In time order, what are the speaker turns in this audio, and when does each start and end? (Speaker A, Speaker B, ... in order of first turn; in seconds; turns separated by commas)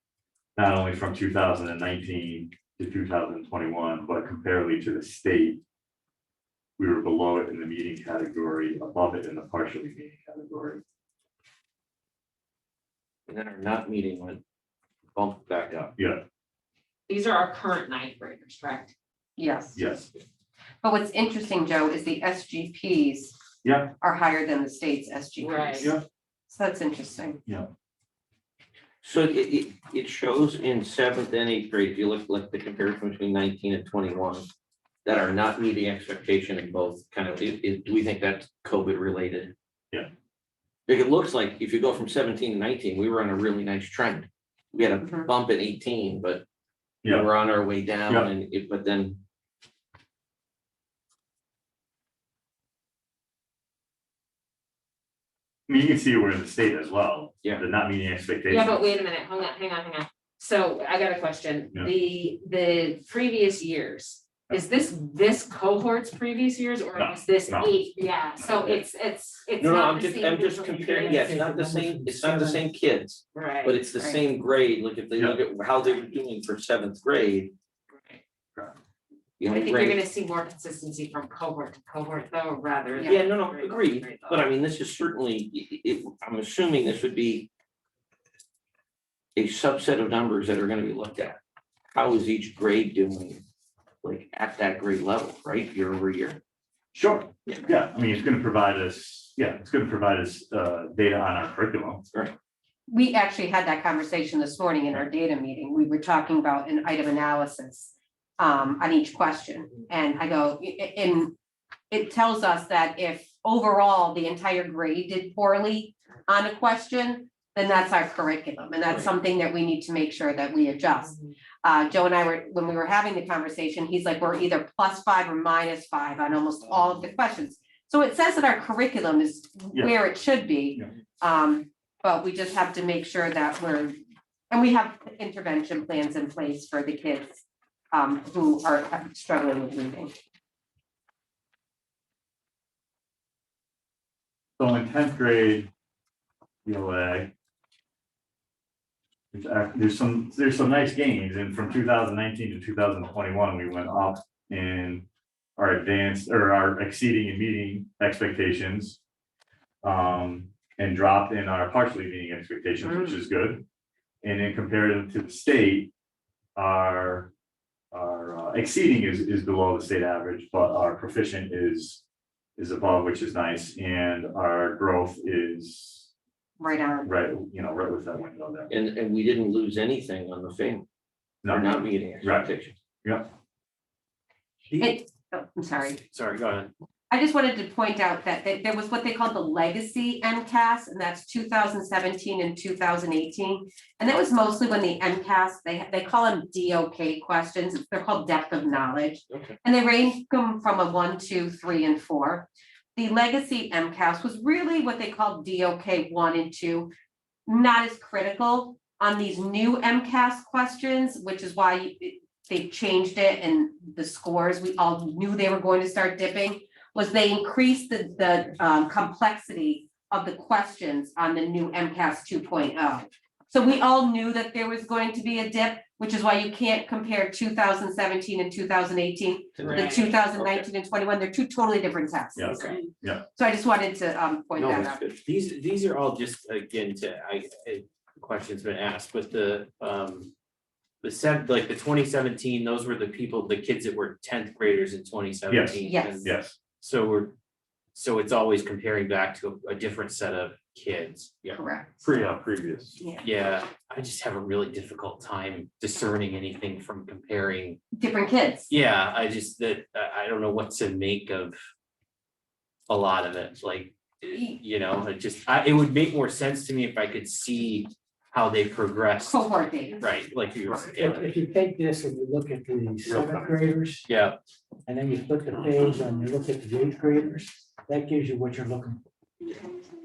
Speaker A: 0.6-5.6, Speaker A: 6.8-10.8, Speaker B: 13.3-14.4, Speaker B: 15.2-15.9, Speaker A: 15.9-16.2, Speaker C: 17.1-18.9, Speaker D: 19.4-19.8, Speaker A: 19.8-20.1, Speaker D: 20.8-23.4, Speaker A: 23.6-23.9, Speaker D: 24.0-25.9, Speaker C: 25.4-25.9, Speaker D: 26.5-27.4, Speaker B: 29.0-34.5, Speaker B: 35.0-39.5, Speaker B: 40.9-46.4, Speaker D: 45.0-45.3, Speaker B: 47.0-49.2, Speaker A: 55.7-58.8, Speaker C: 58.5-71.3, Speaker A: 66.9-67.7, Speaker A: 68.4-68.8, Speaker B: 69.6-77.5, Speaker E: 71.0-72.6, Speaker C: 73.3-73.8, Speaker B: 79.4-80.0, Speaker C: 79.5-84.5, Speaker D: 83.0-83.2, Speaker B: 83.1-87.5, Speaker B: 89.4-91.4, Speaker B: 91.9-93.4, Speaker B: 94.0-96.4, Speaker A: 96.9-102.0, Speaker D: 102.9-111.3, Speaker D: 111.9-134.0, Speaker D: 134.5-140.2, Speaker A: 144.6-145.7, Speaker A: 146.7-147.3, Speaker A: 149.3-155.1, Speaker A: 155.6-159.0, Speaker A: 159.8-163.6, Speaker D: 162.8-163.2, Speaker A: 164.2-165.9, Speaker A: 166.6-167.3, Speaker A: 167.9-172.0, Speaker A: 172.6-176.1, Speaker D: 176.6-177.1, Speaker A: 177.1-178.7, Speaker B: 178.7-180.9, Speaker A: 181.4-182.5, Speaker B: 181.5-182.8, Speaker A: 183.0-183.3, Speaker D: 184.8-186.0, Speaker F: 186.1-186.7, Speaker D: 187.1-206.9, Speaker B: 199.3-199.6, Speaker D: 207.5-232.6, Speaker B: 229.6-230.7, Speaker F: 229.6-229.9, Speaker C: 229.7-230.1, Speaker A: 232.4-233.2, Speaker D: 233.3-235.0, Speaker B: 234.6-235.2, Speaker F: 235.2-240.3, Speaker F: 241.0-247.3, Speaker A: 245.5-246.6, Speaker D: 245.8-246.3, Speaker F: 247.9-251.6, Speaker D: 251.5-252.0, Speaker A: 252.0-253.0, Speaker D: 253.0-253.3, Speaker F: 253.2-257.8, Speaker D: 257.9-258.7, Speaker F: 258.7-261.6, Speaker F: 262.9-269.4, Speaker D: 269.2-270.1, Speaker F: 270.0-271.3, Speaker A: 270.7-271.1, Speaker E: 271.1-274.1, Speaker A: 273.1-273.5, Speaker F: 274.1-274.4, Speaker E: 274.9-279.0